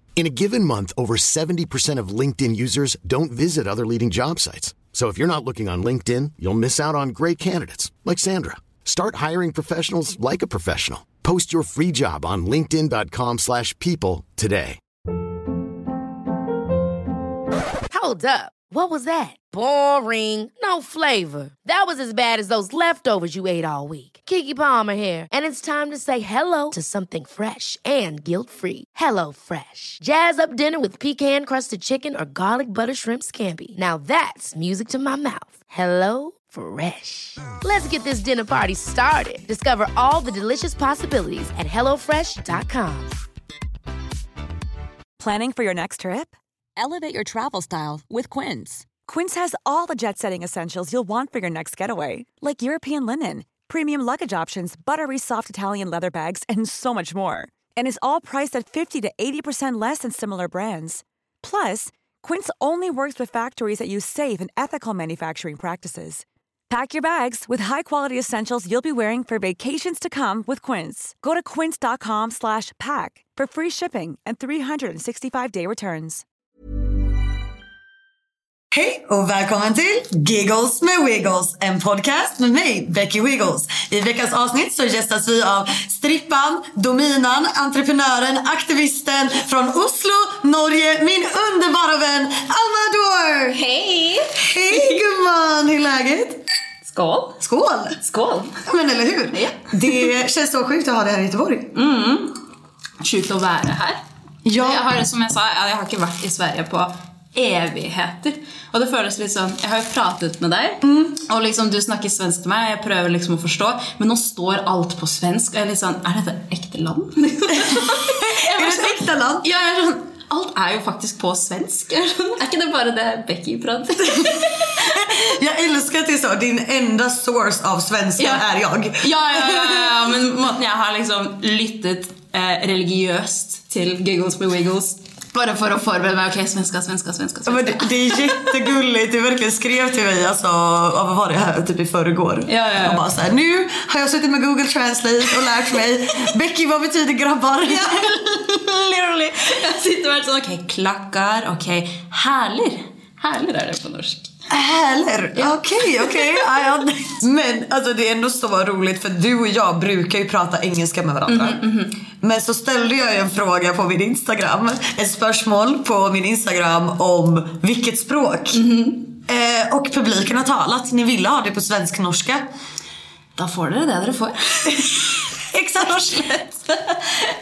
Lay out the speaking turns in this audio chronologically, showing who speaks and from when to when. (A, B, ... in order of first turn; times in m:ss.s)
0:00.2-0:14.8 A
0:17.9-0:43.1 B
0:45.2-1:16.2 C
1:18.7-1:33.6 D
1:33.5-1:35.0 E
1:34.3-1:36.4 D
1:36.8-1:37.4 E
1:37.4-1:38.0 D
1:38.0-1:38.6 E
1:38.6-1:41.7 D
1:39.3-1:40.1 E
1:41.7-1:42.3 E
1:43.0-1:44.0 E
1:44.4-1:44.9 D
1:44.6-2:05.0 E
1:50.8-1:51.2 D
1:57.7-1:59.5 D
2:04.2-2:10.1 D
2:08.2-2:08.4 E
2:09.0-2:18.6 E
2:17.5-2:29.3 D
2:22.5-2:23.0 E
2:29.0-2:34.3 E
2:34.5-2:41.6 D
2:35.4-2:36.5 E
2:41.3-2:41.9 E
2:42.2-2:48.6 D
2:48.5-2:49.1 E
2:49.3-2:52.4 D
2:53.4-2:55.2 E
2:55.4-2:56.4 D
2:55.8-2:57.2 E